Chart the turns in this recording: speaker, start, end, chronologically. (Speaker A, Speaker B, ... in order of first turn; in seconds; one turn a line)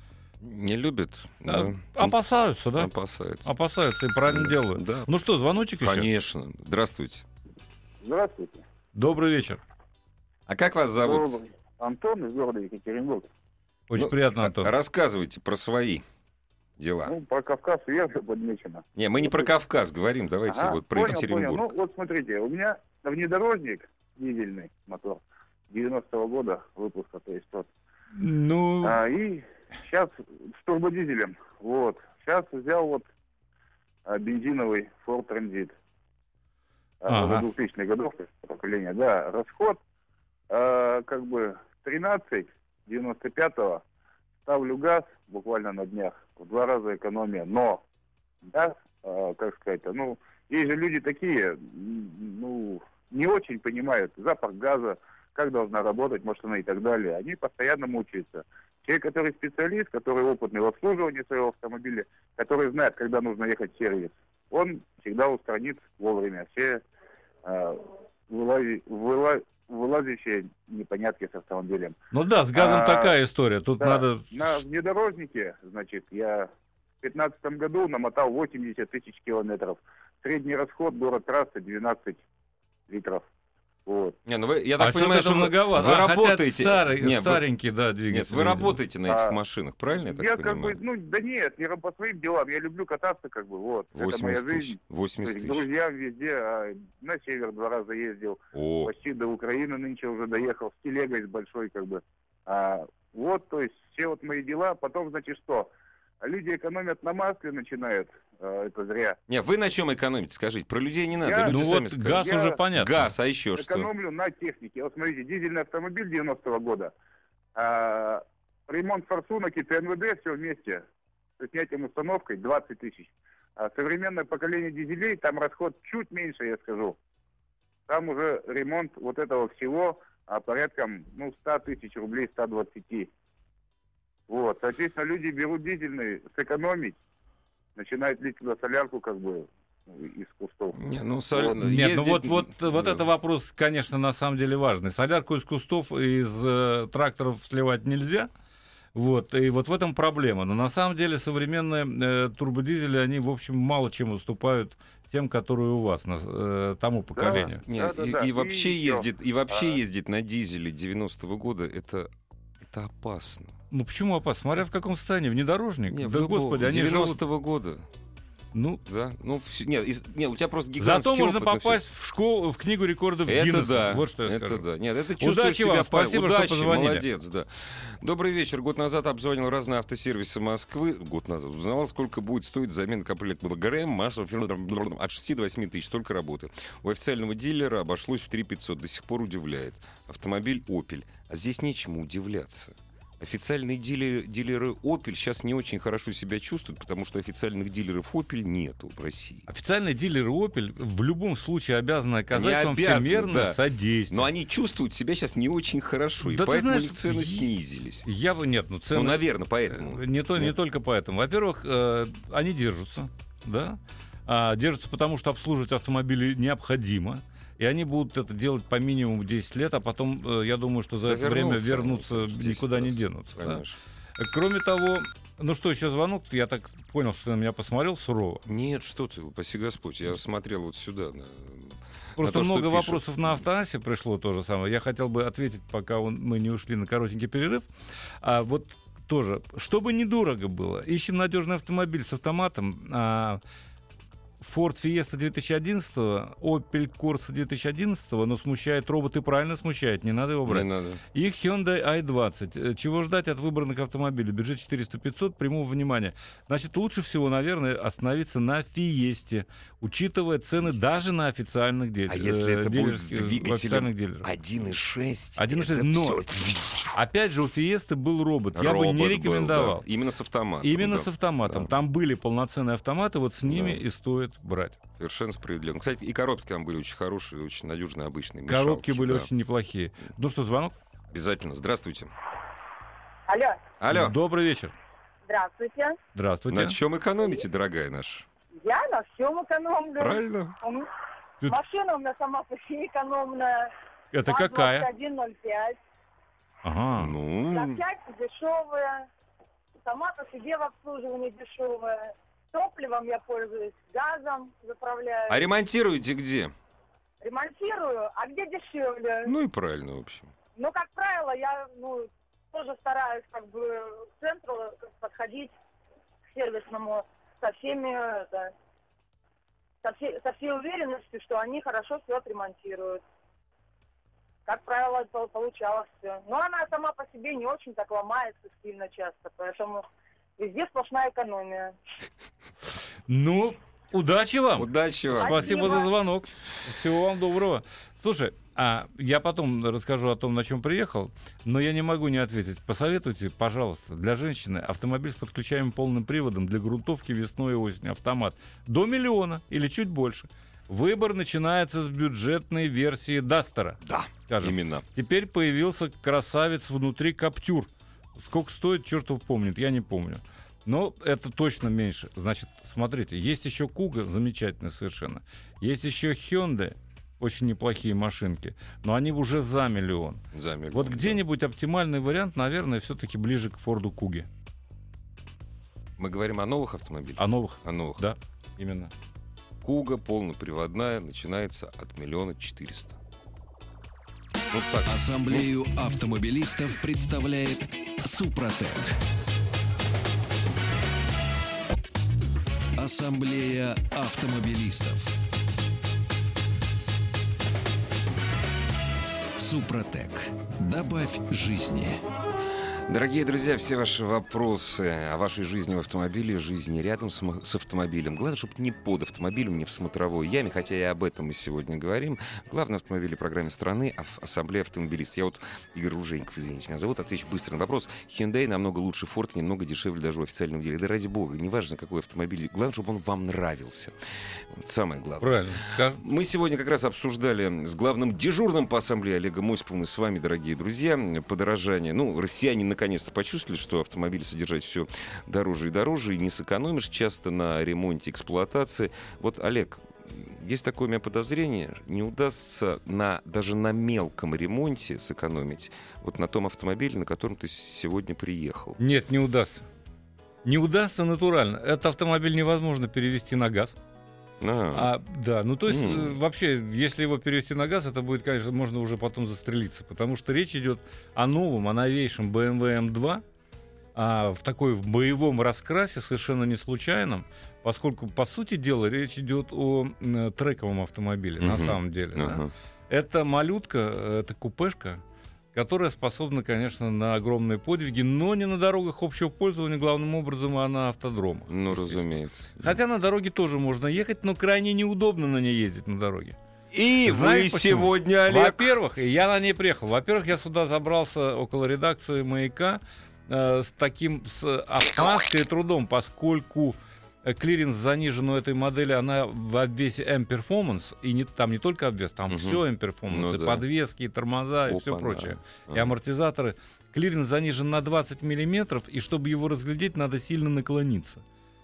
Speaker A: 0.4-2.1
Speaker B: 1.4-2.9
Speaker A: 2.7-3.5
Speaker B: 3.4-6.1
Speaker A: 4.3-5.1
Speaker A: 5.8-7.2
Speaker C: 8.0-8.6
Speaker B: 8.9-9.6
Speaker A: 10.5-11.3
Speaker C: 11.0-13.3
Speaker B: 13.9-14.7
Speaker A: 13.9-16.0
Speaker A: 16.8-17.1
Speaker C: 17.1-19.5
Speaker A: 18.9-21.6
Speaker C: 20.5-27.7
Speaker B: 28.1-29.0
Speaker C: 28.8-33.1
Speaker C: 34.1-35.7
Speaker C: 37.0-39.8
Speaker B: 37.1-37.5
Speaker C: 40.5-43.8
Speaker C: 44.5-47.8
Speaker C: 48.5-66.8
Speaker C: 67.4-72.0
Speaker B: 72.1-74.6
Speaker C: 72.5-73.1
Speaker C: 73.8-76.5
Speaker C: 77.0-82.2
Speaker C: 82.9-83.2
Speaker C: 83.8-84.1
Speaker A: 84.2-87.4
Speaker B: 84.8-88.8
Speaker A: 88.1-90.8
Speaker C: 89.1-89.3
Speaker C: 89.9-109.2
Speaker A: 93.9-95.7
Speaker A: 98.5-98.9
Speaker A: 109.3-113.9
Speaker C: 111.2-111.6
Speaker B: 111.5-113.0
Speaker C: 112.1-112.6
Speaker C: 113.6-116.9
Speaker C: 117.5-120.8
Speaker C: 121.4-127.0
Speaker C: 127.9-133.1
Speaker C: 134.3-137.0
Speaker C: 137.8-140.8
Speaker A: 140.8-143.0
Speaker B: 141.6-148.3
Speaker B: 148.9-157.6
Speaker C: 157.2-159.8
Speaker A: 157.3-162.1
Speaker A: 162.7-163.5
Speaker B: 163.7-167.2
Speaker A: 165.9-167.9
Speaker B: 168.5-168.8
Speaker A: 168.8-171.8
Speaker B: 170.8-174.6
Speaker A: 173.3-199.5
Speaker B: 175.2-177.0
Speaker B: 199.5-204.3
Speaker A: 202.3-208.1
Speaker B: 206.2-207.5
Speaker B: 208.0-223.6
Speaker A: 208.9-210.5
Speaker A: 221.1-223.7
Speaker B: 224.2-228.4
Speaker A: 228.4-233.4
Speaker B: 232.2-237.7
Speaker B: 238.2-243.4
Speaker B: 244.4-264.3
Speaker A: 250.5-251.0
Speaker A: 262.1-266.9
Speaker B: 265.4-266.4
Speaker B: 266.9-269.8
Speaker A: 268.5-271.7
Speaker B: 270.6-274.8
Speaker A: 273.4-273.8
Speaker A: 275.0-279.3
Speaker B: 278.5-280.7
Speaker A: 281.1-282.1
Speaker D: 283.3-283.6
Speaker A: 283.8-284.2
Speaker B: 283.9-284.7
Speaker D: 285.3-286.0
Speaker B: 286.1-286.8
Speaker A: 286.5-288.2
Speaker D: 288.5-290.9
Speaker A: 290.0-290.6
Speaker D: 291.4-293.7
Speaker B: 294.1-294.9
Speaker D: 294.2-295.8
Speaker B: 296.6-297.1
Speaker A: 297.0-297.8
Speaker D: 297.5-299.1
Speaker D: 299.8-305.4
Speaker A: 305.3-306.5
Speaker D: 307.2-309.3
Speaker A: 309.2-310.3
Speaker D: 310.6-315.5
Speaker D: 316.3-318.5
Speaker D: 319.8-323.0
Speaker D: 324.4-329.8
Speaker D: 330.4-331.7
Speaker B: 333.1-374.3
Speaker A: 334.6-335.8
Speaker D: 335.2-335.9
Speaker A: 353.8-354.9
Speaker A: 370.3-371.2
Speaker A: 376.0-378.0
Speaker B: 377.2-378.9
Speaker A: 379.6-383.0
Speaker A: 384.5-385.4
Speaker E: 384.9-389.0
Speaker E: 392.8-395.1
Speaker E: 399.4-402.0
Speaker A: 402.9-423.9
Speaker A: 424.5-448.8
Speaker B: 425.2-426.0
Speaker B: 448.8-449.6
Speaker B: 450.4-453.8
Speaker A: 454.4-454.9
Speaker B: 454.7-463.2
Speaker A: 455.7-456.2
Speaker B: 463.9-475.0
Speaker A: 471.4-472.5
Speaker B: 475.5-486.4
Speaker A: 481.5-482.8
Speaker A: 486.7-488.7
Speaker B: 487.0-511.2
Speaker A: 502.3-503.6
Speaker A: 504.7-505.9